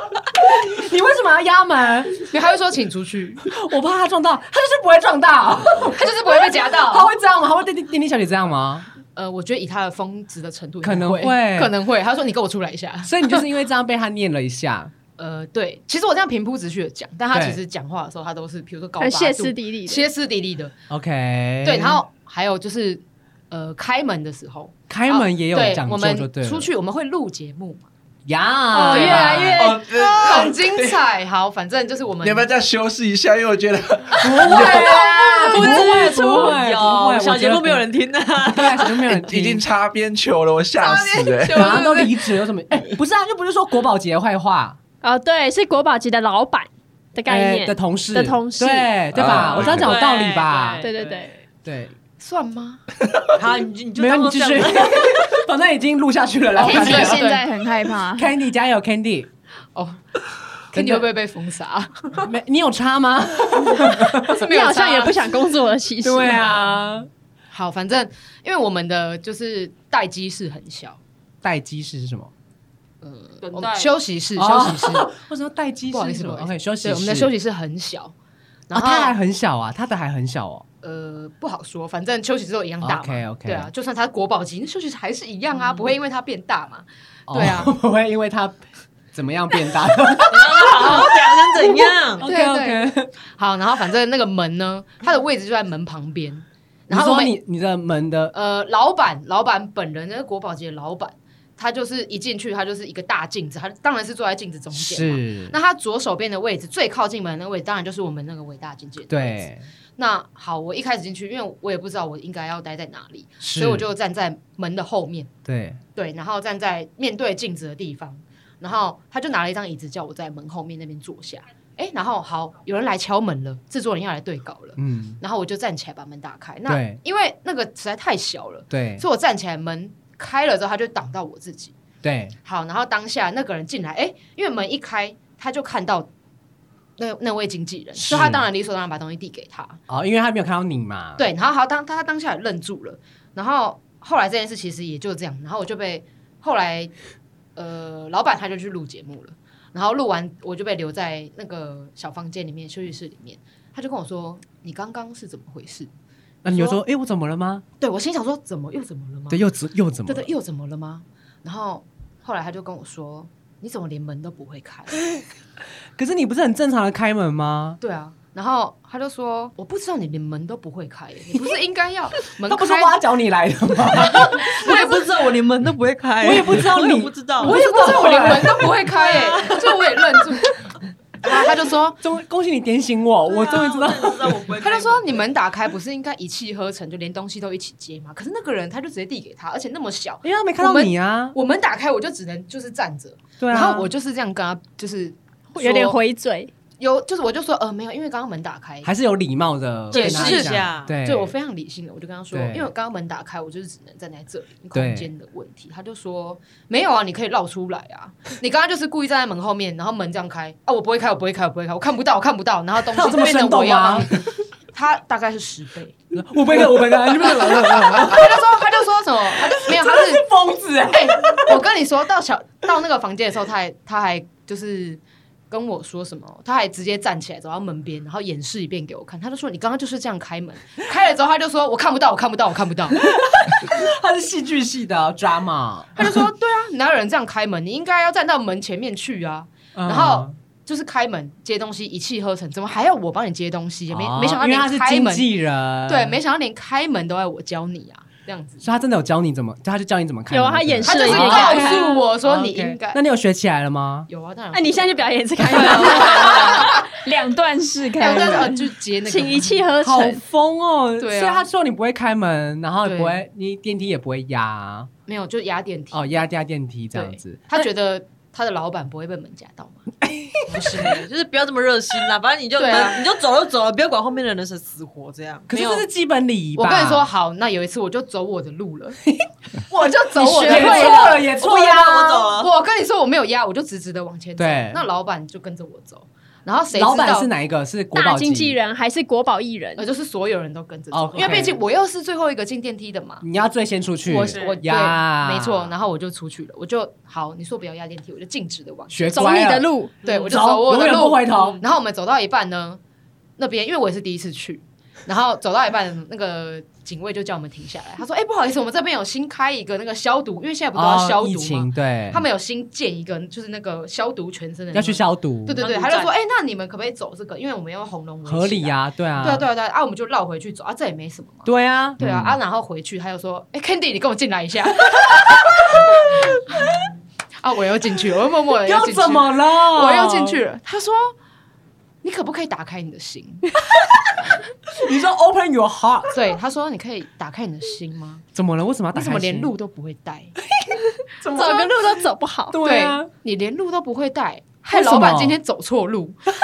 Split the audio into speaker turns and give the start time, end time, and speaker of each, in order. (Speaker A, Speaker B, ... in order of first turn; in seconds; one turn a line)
Speaker A: 0.5-2.2
Speaker B: 2.3-3.4
Speaker A: 3.5-6.1
Speaker B: 5.9-7.1
Speaker A: 6.9-8.9
Speaker B: 9.2-13.4
Speaker A: 10.8-11.7
Speaker A: 13.0-14.9
Speaker B: 15.2-20.7
Speaker A: 17.3-17.6
Speaker C: 19.0-20.1
Speaker A: 20.9-22.0
Speaker B: 21.6-27.9
Speaker A: 24.9-26.7
Speaker A: 28.3-29.6
Speaker C: 28.7-29.8
Speaker B: 28.9-32.5
Speaker D: 29.5-31.0
Speaker D: 32.2-35.0
Speaker A: 34.2-37.8
Speaker E: 34.5-39.1
Speaker A: 38.4-39.6
Speaker D: 39.1-41.8
Speaker E: 40.8-42.3
Speaker A: 41.5-44.8
Speaker C: 45.0-48.9
Speaker A: 47.3-50.8
Speaker D: 49.1-49.9
Speaker E: 49.5-51.3
Speaker C: 50.8-51.3
Speaker A: 51.6-51.9
Speaker B: 52.2-52.8
Speaker E: 53.4-55.4
Speaker A: 54.0-57.2
Speaker F: 56.6-58.3
Speaker B: 56.6-57.5
Speaker A: 58.1-59.3
Speaker B: 59.8-60.0
Speaker B: 60.7-62.3
Speaker A: 60.7-61.1
Speaker A: 62.2-64.4
Speaker B: 64.2-65.3
Speaker C: 64.2-66.5
Speaker A: 66.0-67.1
Speaker B: 67.5-71.0
Speaker A: 71.4-72.3
Speaker B: 73.0-75.1
Speaker E: 73.4-73.9
Speaker A: 74.4-77.3
Speaker B: 75.9-78.1
Speaker B: 78.7-79.1
Speaker A: 78.7-80.7
Speaker B: 80.8-87.7
Speaker A: 82.8-83.7
Speaker A: 87.3-88.6
Speaker A: 89.1-93.1
Speaker E: 90.3-92.3
Speaker B: 92.2-97.4
Speaker A: 96.9-98.3
Speaker B: 98.3-109.4
Speaker A: 104.7-105.6
Speaker A: 109.1-109.7
Speaker B: 110.0-115.3
Speaker A: 113.4-113.9
Speaker A: 115.5-115.8
Speaker B: 116.0-131.8
Speaker A: 124.8-125.2
Speaker A: 126.7-127.0
Speaker A: 128.7-129.0
Speaker A: 132.0-132.3
Speaker B: 132.4-136.1
Speaker B: 137.0-139.8
Speaker A: 138.0-138.5
Speaker A: 139.9-141.2
Speaker B: 141.2-146.9
Speaker B: 147.6-155.9
Speaker A: 156.4-157.6
Speaker B: 156.5-156.8
Speaker B: 157.8-159.4
Speaker A: 159.3-160.3
Speaker B: 160.1-164.9
Speaker A: 166.0-167.8
Speaker B: 167.8-173.0
Speaker A: 172.5-174.7
Speaker E: 174.2-178.3
Speaker B: 174.4-175.0
Speaker A: 176.2-178.7
Speaker B: 177.4-180.6
Speaker E: 179.0-179.7
Speaker B: 181.2-182.0
Speaker A: 182.0-184.4
Speaker E: 183.3-185.3
Speaker B: 184.6-196.0
Speaker A: 190.2-191.4
Speaker A: 193.4-193.9
Speaker C: 195.6-196.5
Speaker B: 196.8-198.9
Speaker A: 198.8-201.3
Speaker E: 199.9-200.9
Speaker B: 199.9-216.0
Speaker A: 202.3-202.7
Speaker A: 204.7-205.1
Speaker A: 212.9-214.2
Speaker A: 216.1-218.5
Speaker B: 216.5-220.3
Speaker A: 219.4-221.6
Speaker B: 220.9-233.0
Speaker A: 233.0-236.2
Speaker B: 236.0-245.3
Speaker A: 239.8-240.3
Speaker A: 243.9-246.2
Speaker B: 245.9-248.6
Speaker A: 248.6-254.1
Speaker C: 250.3-252.1
Speaker B: 250.8-253.0
Speaker B: 254.1-256.9
Speaker C: 254.5-257.1
Speaker F: 256.9-258.5
Speaker C: 258.0-258.4
Speaker B: 258.0-259.6
Speaker C: 259.1-260.2
Speaker A: 259.8-264.9
Speaker B: 261.0-261.5
Speaker B: 262.8-263.2
Speaker B: 265.1-266.1
Speaker A: 265.9-267.6
Speaker B: 266.9-269.9
Speaker B: 270.5-271.0
Speaker E: 270.8-275.5
Speaker B: 272.6-273.0
Speaker A: 275.5-277.1
Speaker B: 275.5-275.9
Speaker B: 276.6-279.0
Speaker A: 279.1-282.3
Speaker B: 279.7-281.5
Speaker C: 280.2-281.2
Speaker E: 280.5-282.5
Speaker B: 282.2-287.3
Speaker A: 284.4-284.8
Speaker A: 286.7-288.6
Speaker C: 287.9-289.9
Speaker B: 289.8-293.2
Speaker A: 290.9-291.6
Speaker A: 293.2-295.7
Speaker B: 294.1-299.5
Speaker E: 294.2-294.6
Speaker A: 298.9-299.7
Speaker C: 299.1-299.9
Speaker E: 300.0-300.4
Speaker B: 300.0-302.8
Speaker A: 300.3-301.6
Speaker B: 303.4-321.5
Speaker A: 310.8-312.2
Speaker A: 314.7-315.6
Speaker E: 315.6-316.1
Speaker A: 318.3-319.5
Speaker A: 321.4-322.0
Speaker B: 322.0-326.9
Speaker D: 322.0-322.4
Speaker B: 327.4-331.1
Speaker A: 328.6-330.4
Speaker B: 332.0-333.5
Speaker A: 333.6-336.1
Speaker B: 336.1-338.2
Speaker A: 338.3-339.5
Speaker B: 338.9-340.3
Speaker A: 340.6-342.0
Speaker C: 341.3-342.6
Speaker A: 342.5-343.1
Speaker B: 342.6-346.2
Speaker A: 344.7-345.4